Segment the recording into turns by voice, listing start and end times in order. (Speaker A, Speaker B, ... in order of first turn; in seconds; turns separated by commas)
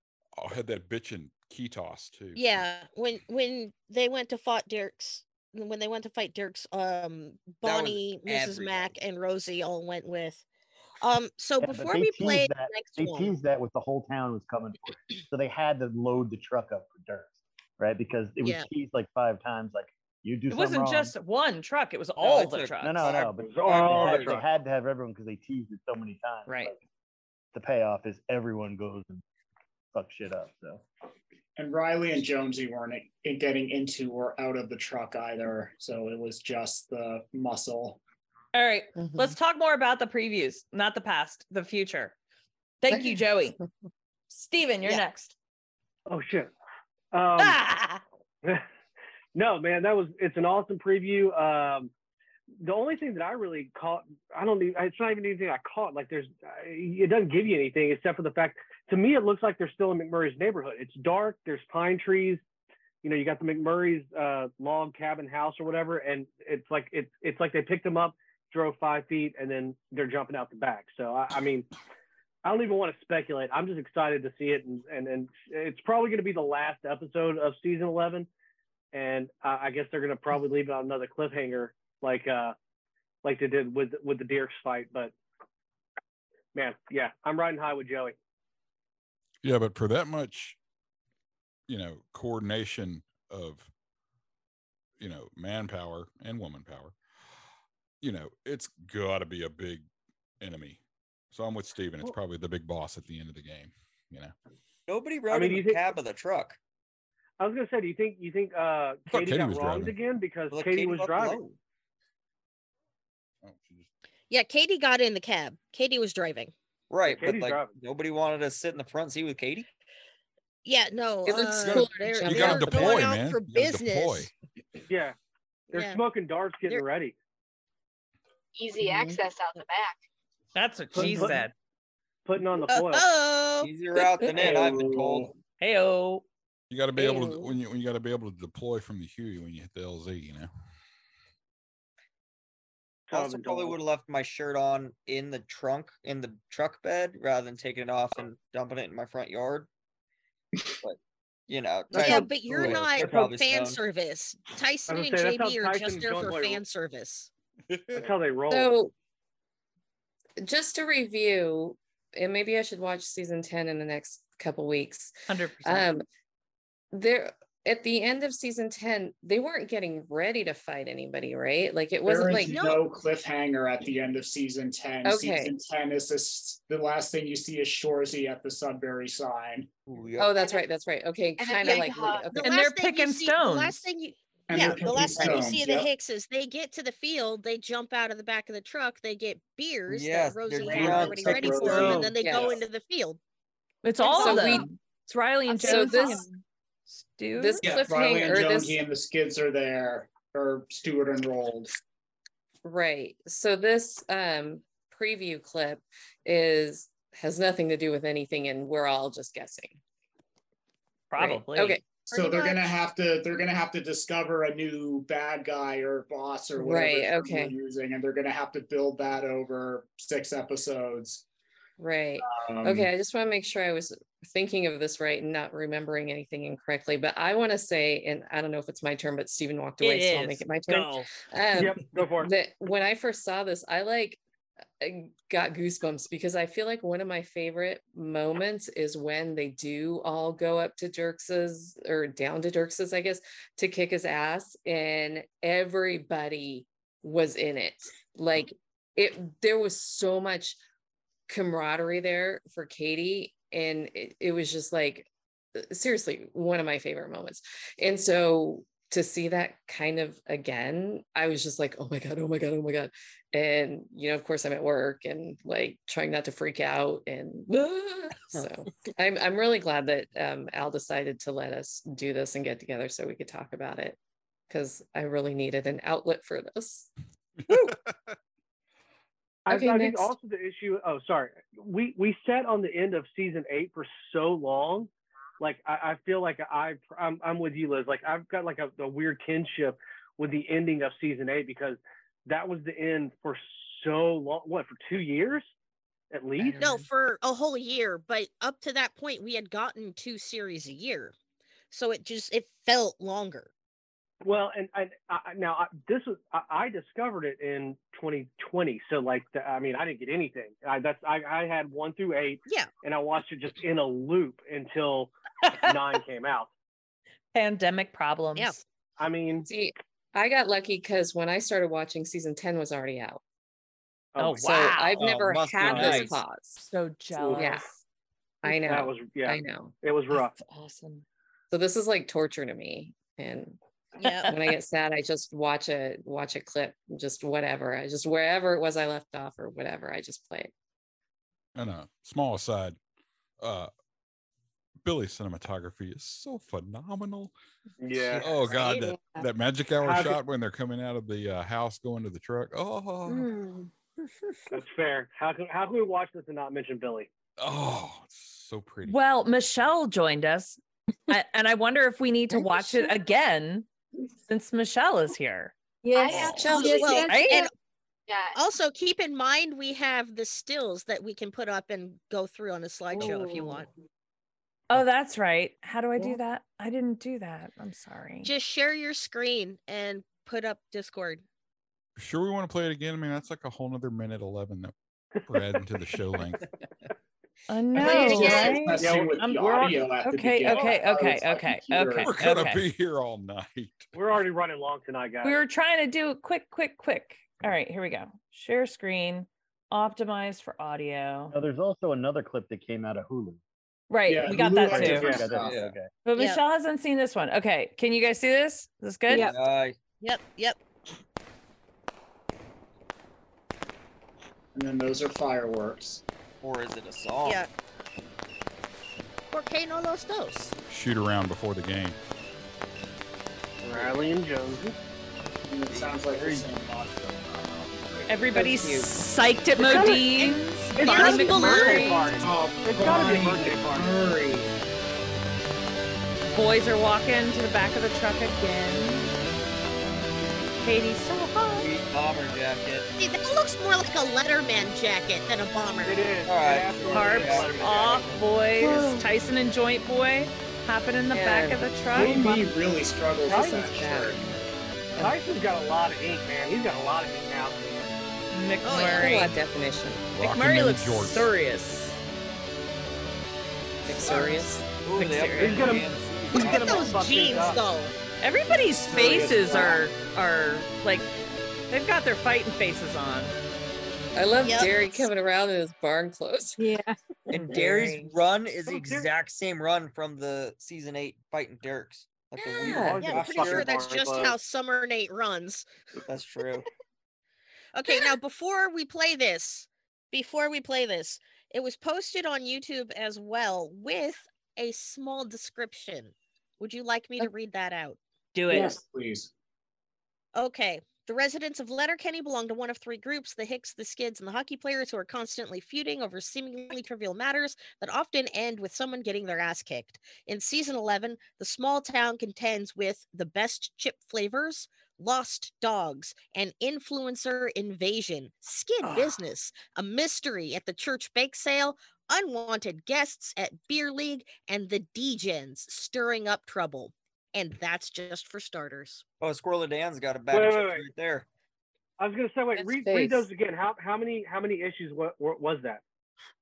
Speaker A: 0.4-2.5, Speaker B: 2.4-10.4, Speaker C: 7.6-8.9, Speaker B: 11.0-13.3, Speaker D: 11.6-21.1, Speaker B: 18.4-18.7, Speaker E: 20.5-23.1, Speaker C: 22.2-24.4, Speaker D: 22.8-26.8, Speaker F: 23.4-24.4, Speaker E: 26.5-26.7, Speaker D: 27.5-29.2, Speaker D: 29.9-30.8, Speaker G: 31.6-38.0, Speaker E: 38.5-42.2, Speaker H: 39.0-39.3, Speaker E: 42.8-43.6, Speaker E: 44.3-45.3, Speaker F: 46.1-46.5, Speaker F: 47.1-47.6, Speaker E: 47.4-48.0, Speaker F: 49.4-51.9, Speaker F: 52.6-62.4, Speaker F: 63.0-71.7, Speaker F: 72.5-78.3, Speaker F: 78.9-82.5, Speaker F: 83.2-85.1, Speaker F: 86.5-88.2, Speaker A: 89.4-90.6, Speaker A: 91.7-93.7, Speaker A: 95.0-96.9, Speaker A: 98.0-99.9, Speaker A: 100.4-100.8, Speaker A: 101.3-104.3, Speaker C: 104.9-106.6, Speaker F: 105.3-105.9, Speaker F: 107.4-111.5, Speaker A: 109.1-110.0, Speaker C: 110.5-111.5, Speaker A: 113.4-113.9, Speaker B: 114.3-116.5, Speaker C: 116.9-119.7, Speaker F: 117.0-117.7, Speaker B: 120.7-124.3, Speaker H: 121.3-123.1, Speaker A: 121.6-124.3, Speaker F: 124.9-125.2, Speaker B: 125.7-126.0, Speaker F: 125.7-127.2, Speaker I: 128.6-130.0, Speaker B: 128.8-129.2, Speaker E: 130.6-131.5, Speaker F: 130.9-131.4, Speaker F: 132.2-133.1, Speaker B: 132.6-133.7, Speaker C: 133.6-135.3, Speaker G: 134.3-135.3, Speaker E: 135.6-136.2, Speaker A: 136.7-140.5, Speaker B: 137.0-137.6, Speaker F: 143.1-143.8, Speaker C: 143.1-149.7, Speaker C: 150.8-153.8, Speaker B: 151.9-157.3, Speaker F: 152.7-153.2, Speaker F: 154.9-156.6, Speaker F: 157.9-158.7, Speaker H: 158.5-158.9, Speaker H: 160.4-166.1, Speaker E: 165.3-165.9, Speaker H: 166.9-172.6, Speaker G: 172.1-179.7, Speaker B: 172.4-172.9, Speaker H: 175.1-175.5, Speaker C: 179.9-180.4, Speaker H: 180.2-182.6, Speaker I: 181.4-182.3, Speaker B: 181.6-193.2, Speaker E: 182.4-183.8, Speaker G: 184.5-185.9, Speaker C: 189.9-192.1, Speaker G: 190.6-192.5, Speaker H: 192.2-192.6, Speaker E: 193.8-196.4, Speaker B: 194.1-194.7, Speaker H: 194.1-194.7, Speaker H: 195.6-196.3, Speaker E: 196.9-197.6, Speaker H: 197.4-198.8, Speaker G: 197.6-201.7, Speaker H: 202.6-209.8, Speaker E: 211.1-211.8, Speaker H: 211.2-212.6, Speaker G: 212.1-221.2, Speaker H: 216.6-217.5, Speaker H: 221.8-234.2, Speaker G: 222.2-222.9, Speaker E: 229.8-231.1, Speaker F: 231.6-232.3, Speaker H: 234.8-250.6, Speaker H: 251.3-274.0, Speaker H: 274.5-276.9, Speaker A: 277.5-278.1, Speaker F: 279.5-295.5, Speaker H: 279.5-280.1, Speaker F: 296.1-296.8, Speaker E: 296.4-296.7, Speaker B: 296.6-301.1, Speaker B: 301.7-303.5, Speaker F: 304.2-316.5, Speaker E: 317.3-318.6, Speaker B: 318.4-318.6, Speaker F: 319.0-319.5, Speaker H: 319.5-323.2, Speaker F: 324.1-324.5, Speaker E: 324.2-325.1, Speaker H: 324.3-326.7, Speaker C: 325.0-326.2, Speaker F: 325.6-326.1, Speaker E: 325.8-326.1, Speaker E: 326.6-327.8, Speaker F: 327.1-327.5, Speaker H: 327.4-327.7, Speaker H: 328.4-329.7, Speaker F: 328.5-330.4, Speaker E: 330.4-331.1, Speaker H: 331.5-333.6, Speaker B: 334.0-334.4, Speaker H: 334.3-340.5, Speaker A: 341.6-342.8, Speaker A: 343.4-343.7, Speaker A: 344.8-347.3, Speaker F: 347.8-348.3, Speaker A: 348.1-353.3, Speaker I: 348.8-349.3, Speaker F: 349.8-350.2, Speaker I: 353.1-353.7, Speaker F: 354.5-357.1, Speaker A: 357.4-359.0, Speaker E: 358.9-363.7, Speaker I: 362.4-362.9, Speaker E: 364.3-365.5, Speaker I: 365.8-367.5, Speaker B: 366.0-367.5, Speaker H: 366.1-367.1, Speaker E: 366.1-367.4, Speaker I: 368.1-368.4, Speaker B: 368.3-373.7, Speaker I: 373.0-373.5, Speaker E: 374.7-378.3, Speaker B: 378.2-381.2, Speaker A: 382.0-386.5, Speaker E: 387.5-392.6, Speaker G: 387.7-392.2, Speaker B: 387.9-388.7, Speaker F: 388.1-389.9, Speaker F: 390.5-390.8, Speaker A: 392.0-393.9, Speaker F: 393.9-395.4, Speaker E: 395.2-401.4, Speaker D: 401.3-403.4, Speaker E: 403.9-405.1, Speaker G: 404.1-405.6, Speaker D: 404.3-405.9, Speaker F: 405.0-405.3, Speaker E: 406.1-409.3, Speaker B: 406.2-406.4, Speaker C: 409.1-409.8, Speaker B: 410.0-410.6, Speaker G: 414.6-416.0, Speaker C: 416.4-417.4, Speaker B: 419.3-420.6, Speaker A: 420.7-422.0, Speaker F: 423.6-424.8, Speaker C: 423.7-424.1, Speaker G: 425.5-428.5, Speaker C: 425.7-426.5, Speaker E: 428.1-432.2, Speaker F: 429.6-430.1, Speaker B: 429.8-432.1, Speaker F: 430.8-434.1, Speaker G: 432.2-434.5, Speaker E: 436.3-439.1, Speaker E: 440.6-441.7, Speaker C: 441.5-442.9, Speaker B: 443.0-446.1, Speaker F: 445.8-448.1, Speaker C: 446.3-448.3, Speaker E: 446.9-452.3, Speaker H: 451.1-452.4, Speaker G: 451.9-454.4, Speaker H: 453.3-454.2, Speaker F: 453.3-453.6, Speaker F: 455.0-458.0, Speaker E: 458.3-459.3, Speaker B: 458.6-459.2, Speaker H: 458.9-460.1, Speaker A: 460.1-461.3, Speaker E: 460.2-462.0, Speaker H: 463.9-464.6, Speaker C: 464.8-467.1, Speaker E: 465.0-465.8, Speaker F: 465.4-467.6, Speaker B: 466.3-467.9, Speaker E: 468.2-471.1, Speaker G: 468.7-469.9, Speaker E: 471.7-473.4, Speaker H: 474.1-476.7, Speaker B: 474.4-475.1, Speaker I: 476.6-477.0, Speaker C: 477.3-483.8, Speaker E: 477.4-478.1, Speaker F: 478.7-479.1, Speaker H: 482.6-483.0, Speaker F: 482.6-484.4, Speaker B: 483.0-485.7, Speaker C: 486.1-486.7, Speaker B: 487.7-498.0, Speaker E: 498.3-498.8, Speaker G: 498.5-499.3, Speaker B: 500.4-529.0, Speaker E: 518.8-519.1, Speaker C: 529.2-531.3, Speaker F: 530.3-530.9, Speaker F: 532.0-535.8, Speaker H: 532.6-533.3